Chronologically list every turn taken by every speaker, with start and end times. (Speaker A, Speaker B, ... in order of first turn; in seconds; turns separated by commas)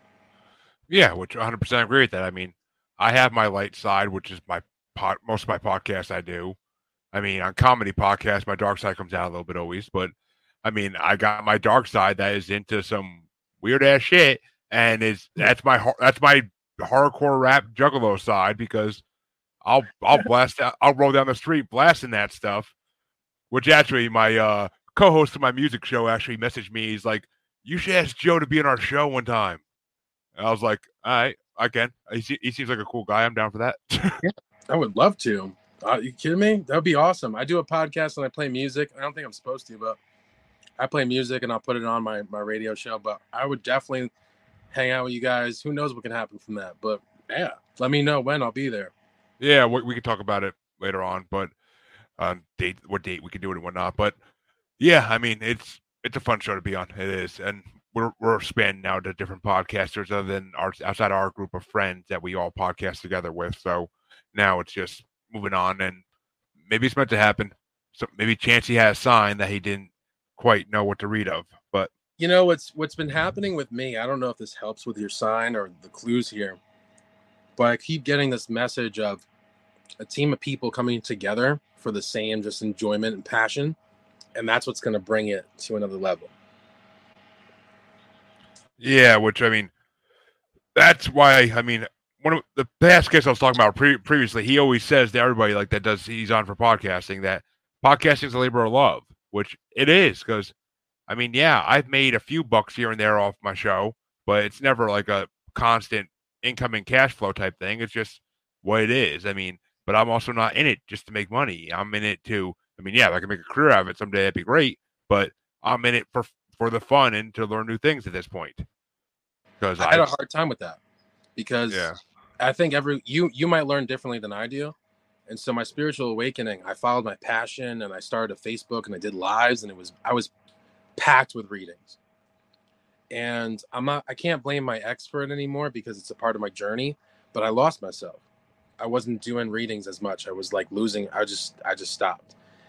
Speaker A: 0.9-6.5, Speaker A: 7.1-10.1, Speaker A: 10.6-19.0, Speaker A: 19.6-22.7, Speaker A: 23.5-29.6, Speaker A: 30.4-34.2, Speaker B: 34.2-40.0, Speaker B: 40.8-44.1, Speaker B: 44.7-48.9, Speaker A: 49.4-51.5, Speaker A: 52.2-54.1, Speaker A: 54.8-66.0, Speaker A: 66.7-71.9, Speaker B: 72.2-76.6, Speaker B: 77.6-79.2, Speaker B: 80.0-83.8, Speaker B: 84.3-86.3, Speaker A: 88.8-89.7, Speaker A: 90.7-100.5, Speaker A: 101.1-118.7, Speaker A: 119.6-120.1, Speaker B: 119.8-120.8, Speaker B: 121.3-121.9, Speaker A: 121.7-122.0, Speaker B: 122.4-124.7, Speaker B: 125.3-130.3, Speaker B: 131.0-132.0, Speaker B: 133.1-138.2, Speaker B: 138.8-142.3